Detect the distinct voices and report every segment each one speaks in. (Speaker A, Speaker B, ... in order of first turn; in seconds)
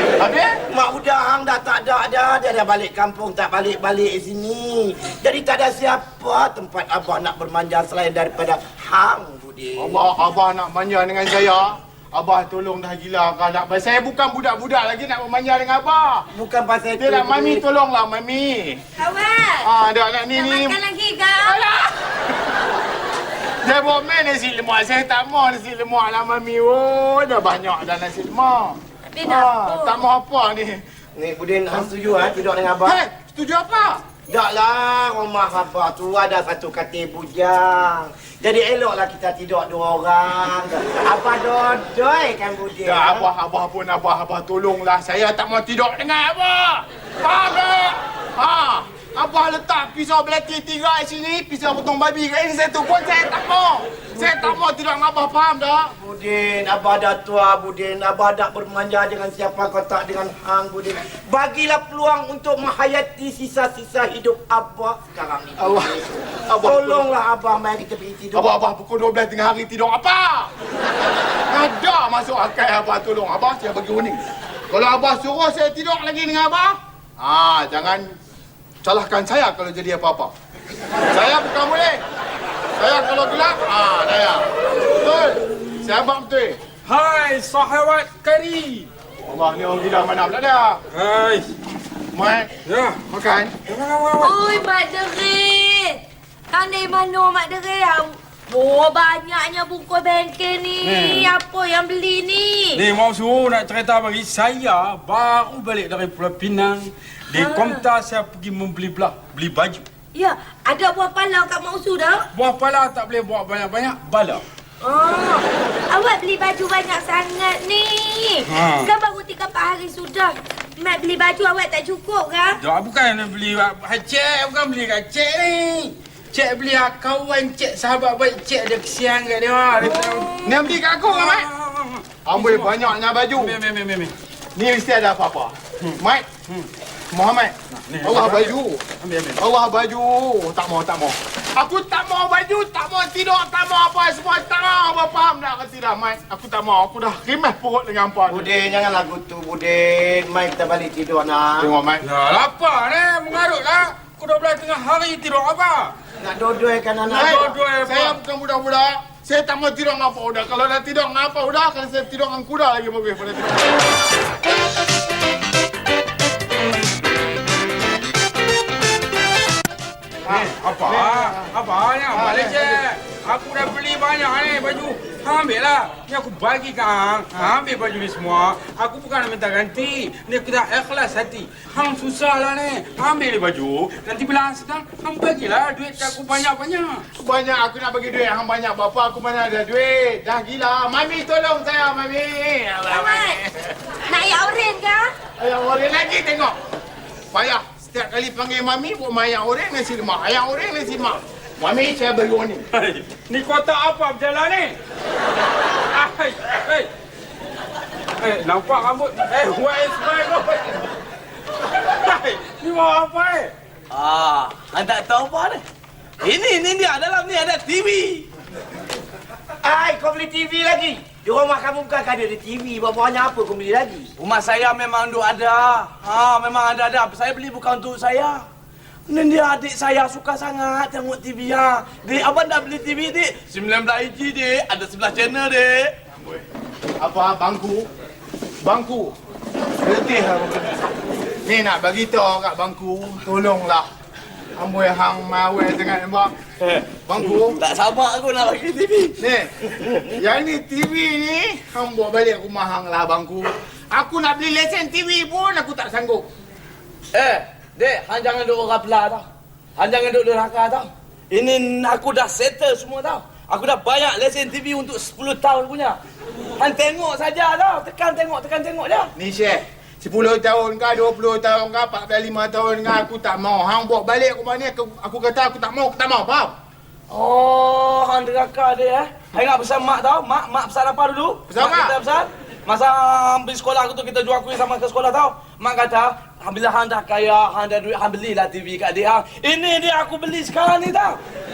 Speaker A: 0.2-0.6, 9.8-16.3, 17.0-18.8, 19.6-20.8, 21.4-21.9, 23.6-30.8, 32.8-34.0, 42.8-55.9, 65.6-67.1, 68.3-70.5, 71.5-78.1, 78.8-80.3, 81.1-82.0, 82.8-86.6, 89.3-90.8, 92.1-92.5, 93.0-93.5, 130.3-131.5, 132.2-133.6, 134.5-136.2, 137.1-138.8, 139.4-148.5, 151.6-152.0, 157.1-163.7, 170.2-171.5, 172.1-172.8, 187.2-193.7, 195.4-196.6, 197.3-202.6, 237.0-237.9, 238.6-239.1, 239.8-240.8, 241.4-243.8, 244.6-246.3, 247.1-247.6, 249.2-256.3, 269.1-276.5, 281.5-281.9
Speaker B: 0.7-10.0, 16.3-17.6, 31.1-33.0, 34.3-43.3, 56.0-66.0, 66.6-68.5, 148.3-151.7, 156.2-157.6, 219.6-224.1
Speaker C: 19.0-19.7, 20.3-21.6, 29.1-30.0, 94.2-96.0, 96.5-102.8, 107.3-107.8, 110.1-112.2, 114.8-122.6, 192.9-193.3, 194.1-195.1
Speaker D: 86.8-88.9, 90.9-91.4, 92.7-93.0, 93.6-94.4, 100.8-101.3, 102.7-109.8, 112.3-114.4, 118.5-118.9, 122.6-132.8, 133.3-134.1, 137.9-139.4, 152.0-155.9, 157.1-158.2, 170.2-187.0, 202.7-204.7, 205.9-206.9, 208.2-210.8, 212.0-213.5
Speaker E: 213.9-215.6, 216.2-218.3, 224.2-228.4, 229.1-235.9, 246.6-249.2, 257.1-259.2, 259.8-266.0, 266.6-269.1, 277.1-291.2